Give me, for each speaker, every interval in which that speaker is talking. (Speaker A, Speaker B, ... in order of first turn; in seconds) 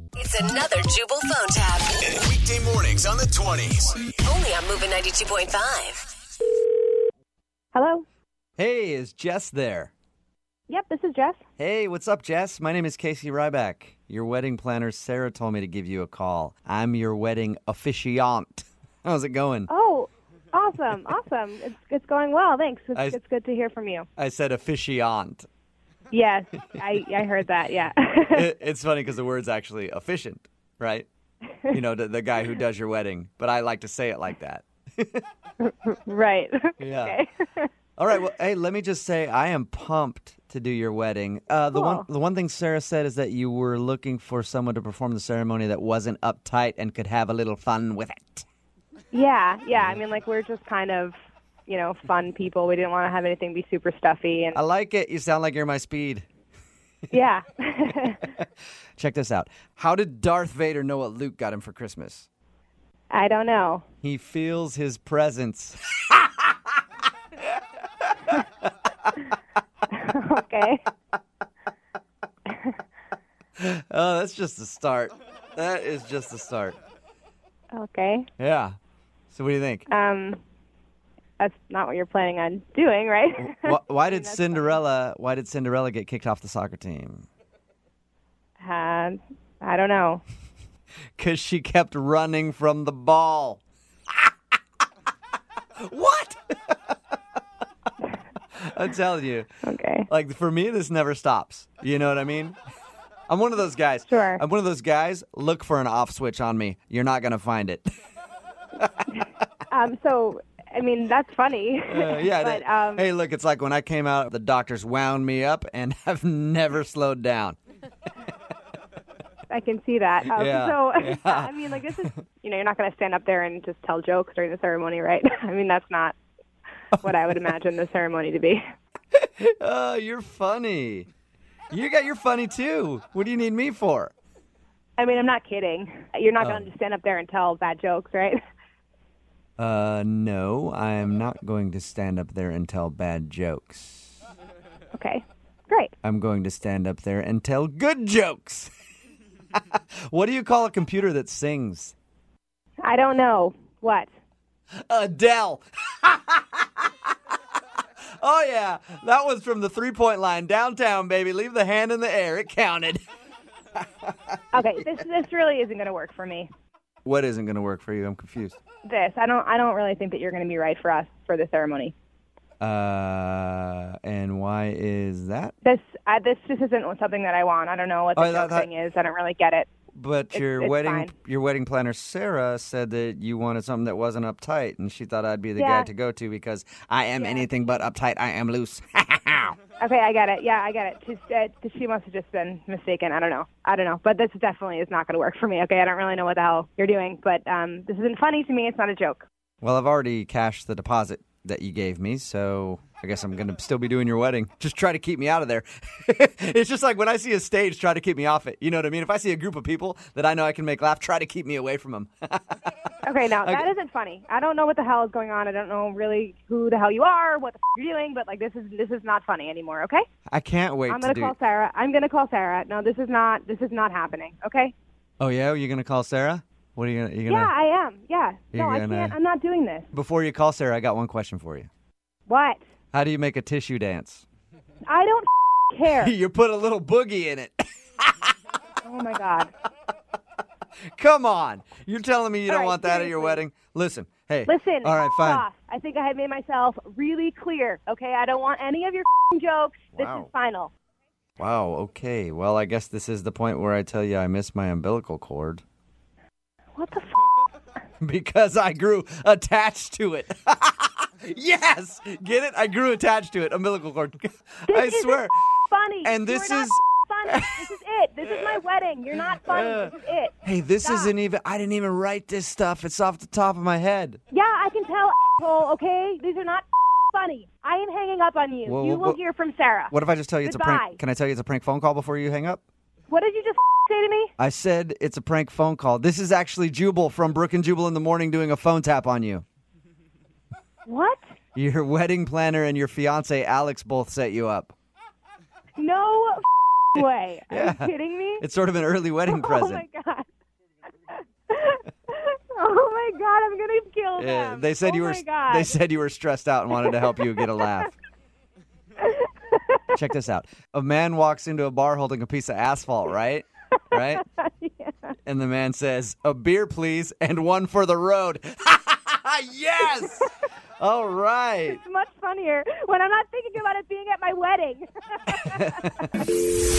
Speaker A: 0.2-2.2, 4.2-6.1
Speaker B: 2.1-4.0
Speaker C: 7.7-8.1, 10.7-11.4, 19.7-24.1, 26.1-28.5, 35.6-37.7, 41.7-42.1, 49.1-54.6, 57.1-58.3, 63.1-63.8, 69.9-70.8, 72.5-72.8, 77.7-78.3, 79.9-80.4, 81.4-84.8, 88.6-90.2, 99.6-100.1, 104.1-104.4, 109.7-113.1, 119.5-126.2, 127.0-128.6, 135.0-138.4, 144.9-145.9, 152.8-154.1, 164.5-166.5, 168.8-171.9, 175.6-179.7, 180.3-181.1, 185.6-185.9, 187.2-187.5, 189.8-199.3, 213.0-220.1, 220.9-224.7, 227.3-229.9, 232.3-232.6, 234.8-236.1, 238.8-239.5, 242.5-243.4, 244.5-250.7, 256.8-257.1, 264.7-271.1, 274.3-281.0, 283.1-284.3, 290.9-291.2, 295.8-296.4, 296.9-298.4, 299.3-300.3, 301.1-305.8, 306.8-307.6, 309.5-309.8, 314.4-315.1, 321.7-326.3
Speaker D: 8.6-9.9, 11.6-19.7, 24.2-25.5, 28.3-31.1, 31.7-35.2, 36.8-37.2, 38.0-48.5, 49.7-50.0, 54.5-56.3, 59.0-62.3, 64.0-66.6, 73.6-76.8, 78.4-78.8, 79.3-79.9, 83.4-87.3, 91.2-94.3, 95.8-97.0, 98.6-99.5, 100.1-102.6, 103.3-107.9, 111.9-117.6, 120.3-122.2, 129.1-131.1, 131.7-134.1, 136.4-136.7, 139.6-144.1, 146.0-148.7, 149.5-151.9, 154.9-156.9, 158.2-163.0, 167.1-168.6, 172.6-175.5, 178.2-178.7, 179.9-189.6, 199.6-212.7, 213.4-213.7, 220.3-221.3, 225.2-227.5, 228.5-229.2, 229.9-231.7, 232.9-234.2, 235.9-238.3, 240.9-245.5, 249.9-250.3, 251.4-255.6, 258.0-265.4, 266.0-267.7, 269.5-269.9, 270.4-274.2, 278.7-279.2, 279.9-282.6, 284.4-289.4, 291.6-294.7, 297.5-299.9, 304.2-307.9, 309.9-314.2, 315.3-320.3, 320.8-321.8, 325.5-325.8